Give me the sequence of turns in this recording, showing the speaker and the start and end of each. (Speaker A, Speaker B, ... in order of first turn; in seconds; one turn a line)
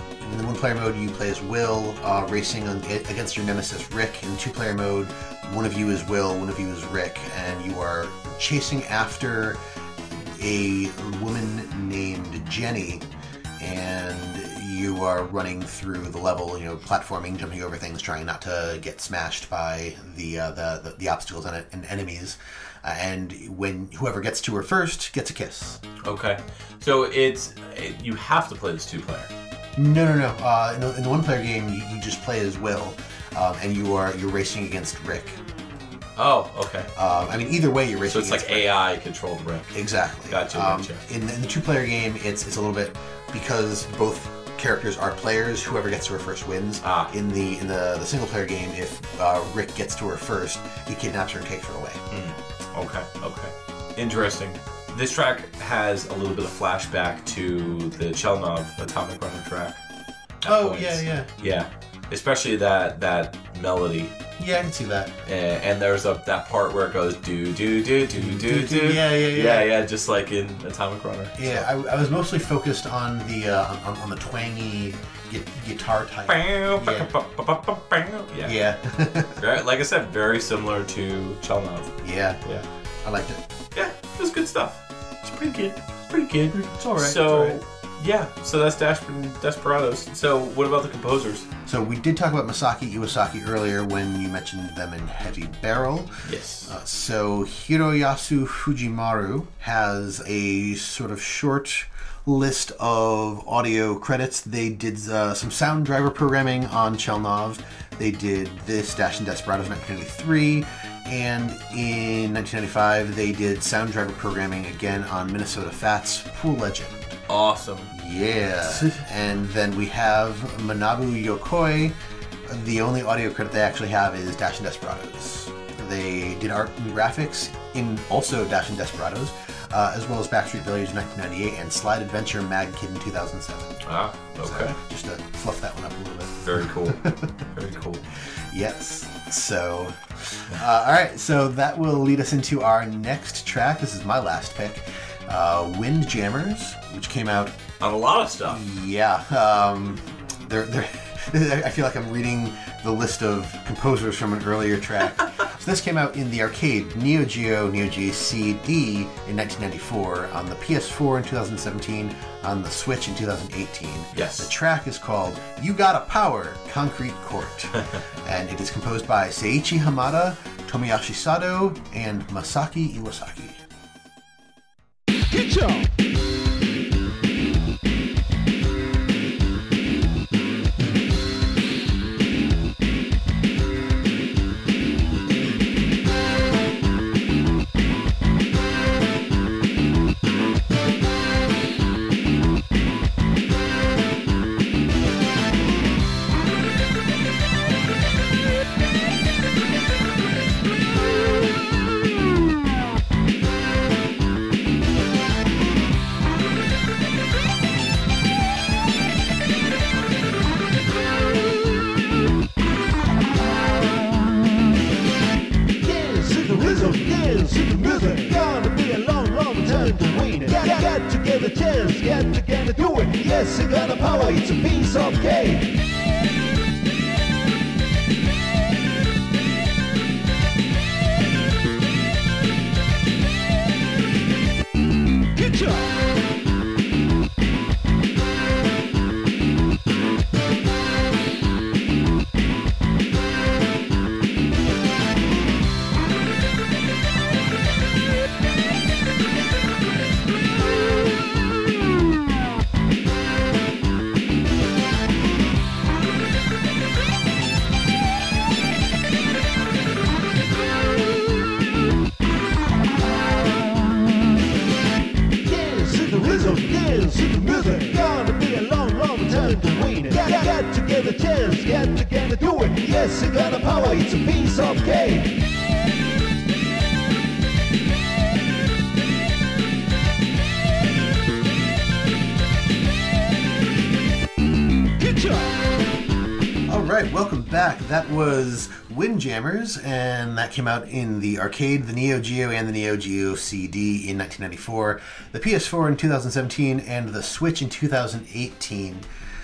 Speaker A: 0.2-9.6
Speaker A: 10.1-13.1
Speaker A: 13.6-25.8
Speaker B: 26.0-29.3
Speaker A: 29.8-35.4
Speaker B: 36.1-36.9
Speaker A: 36.9-38.7
Speaker B: 38.1-39.7
Speaker A: 39.7-52.0
Speaker B: 40.3-41.0
Speaker B: 46.8-47.1
Speaker B: 52.1-59.8
Speaker B: 60.4-64.2
Speaker A: 60.4-61.3
Speaker A: 64.4-65.2
Speaker B: 65.2-71.7
Speaker A: 68.1-69.7
Speaker A: 71.4-77.1
Speaker B: 76.3-78.6
Speaker A: 78.4-79.4
Speaker B: 79.4-82.7
Speaker A: 82.0-82.4
Speaker A: 83.0-83.4
Speaker B: 83.7-91.5
Speaker A: 86.5-87.6
Speaker A: 91.7-117.2
Speaker B: 96.2-96.7
Speaker B: 117.3-117.9
Speaker A: 117.9-133.8
Speaker B: 118.7-119.0
Speaker B: 133.8-134.8
Speaker A: 134.4-137.5
Speaker B: 136.4-138.0
Speaker A: 138.3-147.6
Speaker B: 147.8-148.6
Speaker A: 148.5-173.6
Speaker B: 164.1-164.5
Speaker C: 175.3-175.8
Speaker C: 215.8-225.7
Speaker C: 235.4-235.9
Speaker C: 265.4-275.4
Speaker C: 285.0-285.5
Speaker A: 286.7-299.0